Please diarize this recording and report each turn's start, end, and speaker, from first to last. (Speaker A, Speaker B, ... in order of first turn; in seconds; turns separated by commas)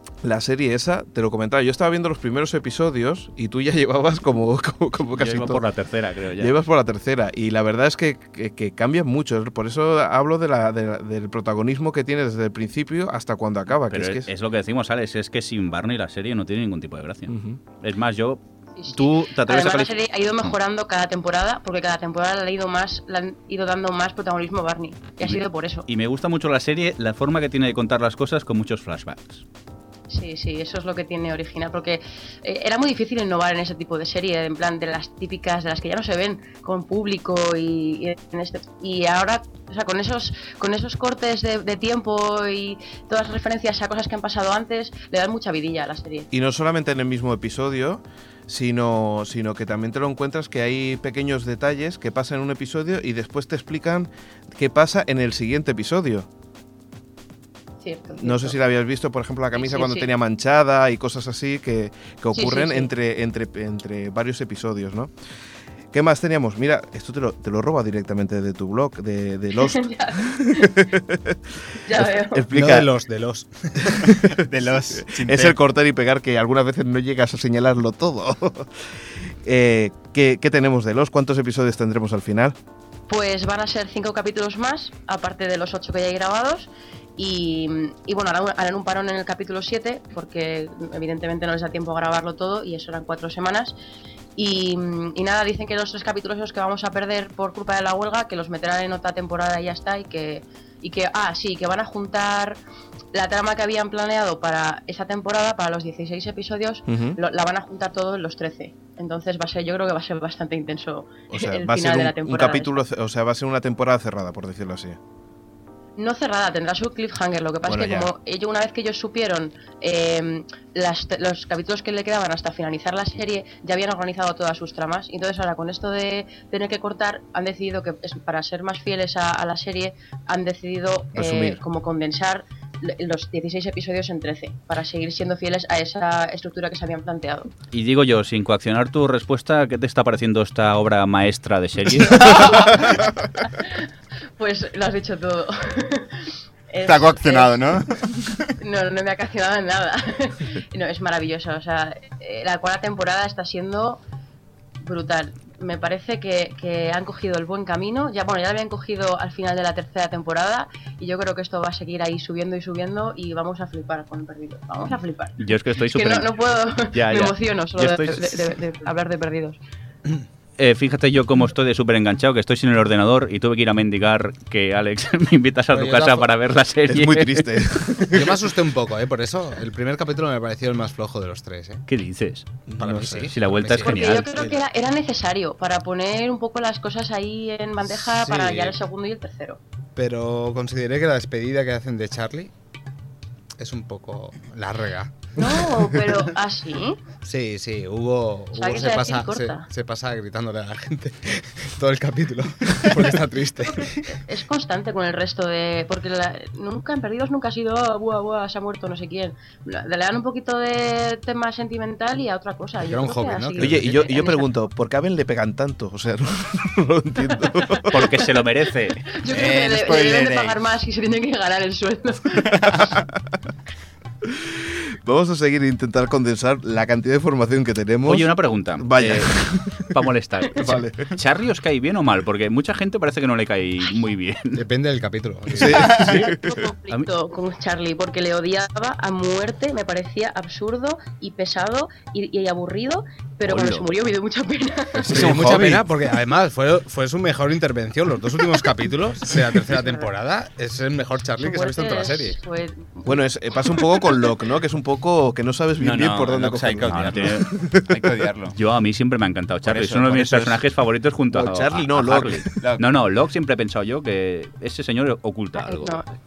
Speaker A: 0.2-5.6, Speaker B: 5.2-6.5, Speaker A: 6.4-14.3, Speaker B: 13.9-18.4, Speaker A: 17.3-17.6, Speaker C: 18.8-25.9, Speaker B: 18.9-19.9, Speaker B: 25.2-29.4, Speaker C: 30.1-46.3, Speaker A: 46.3-56.3, Speaker C: 57.8-58.6, Speaker A: 58.2-65.1, Speaker C: 59.5-60.1, Speaker C: 62.3-62.9, Speaker A: 65.9-72.9, Speaker C: 69.6-70.8, Speaker C: 71.8-72.5, Speaker D: 72.5-74.0, Speaker A: 73.9-74.3, Speaker E: 74.3-75.5, Speaker A: 74.9-78.7, Speaker A: 79.4-82.5, Speaker C: 83.1-93.7, Speaker C: 94.4-102.6, Speaker C: 103.1-112.8, Speaker A: 106.9-107.2, Speaker A: 111.3-115.0, Speaker C: 116.0-137.5, Speaker A: 117.6-118.1, Speaker A: 131.1-131.6, Speaker B: 137.7-142.9, Speaker E: 142.1-142.4, Speaker C: 142.1-147.6, Speaker E: 146.8-148.5, Speaker C: 148.6-154.0, Speaker C: 154.8-169.6, Speaker B: 165.4-168.5, Speaker B: 170.6-177.6, Speaker D: 175.7-176.3, Speaker A: 176.9-178.4, Speaker D: 178.1-181.8, Speaker B: 181.9-182.5, Speaker A: 182.7-183.3, Speaker D: 182.8-184.6, Speaker B: 183.3-184.3, Speaker C: 183.8-189.6, Speaker D: 188.0-188.8, Speaker D: 189.9-192.5, Speaker D: 193.6-196.1, Speaker C: 195.3-197.0, Speaker D: 197.2-204.2, Speaker C: 198.5-199.7, Speaker C: 203.6-214.5, Speaker D: 212.8-214.0, Speaker A: 213.6-218.1, Speaker C: 217.7-218.1, Speaker B: 217.9-219.1, Speaker C: 219.1-222.9, Speaker E: 219.3-220.6, Speaker E: 222.5-222.8, Speaker A: 224.2-230.0, Speaker B: 228.1-234.6, Speaker A: 230.6-231.1, Speaker D: 234.5-236.0, Speaker A: 235.5-236.5, Speaker C: 235.8-245.2, Speaker B: 235.9-236.3, Speaker B: 243.5-243.8, Speaker D: 245.0-252.4, Speaker A: 245.1-245.8, Speaker C: 249.7-250.1, Speaker C: 251.4-254.1, Speaker A: 253.0-258.1, Speaker E: 255.8-258.6, Speaker B: 256.9-257.5, Speaker B: 258.6-266.0, Speaker E: 259.6-260.6, Speaker A: 261.3-262.5, Speaker E: 262.6-262.9, Speaker C: 265.6-266.1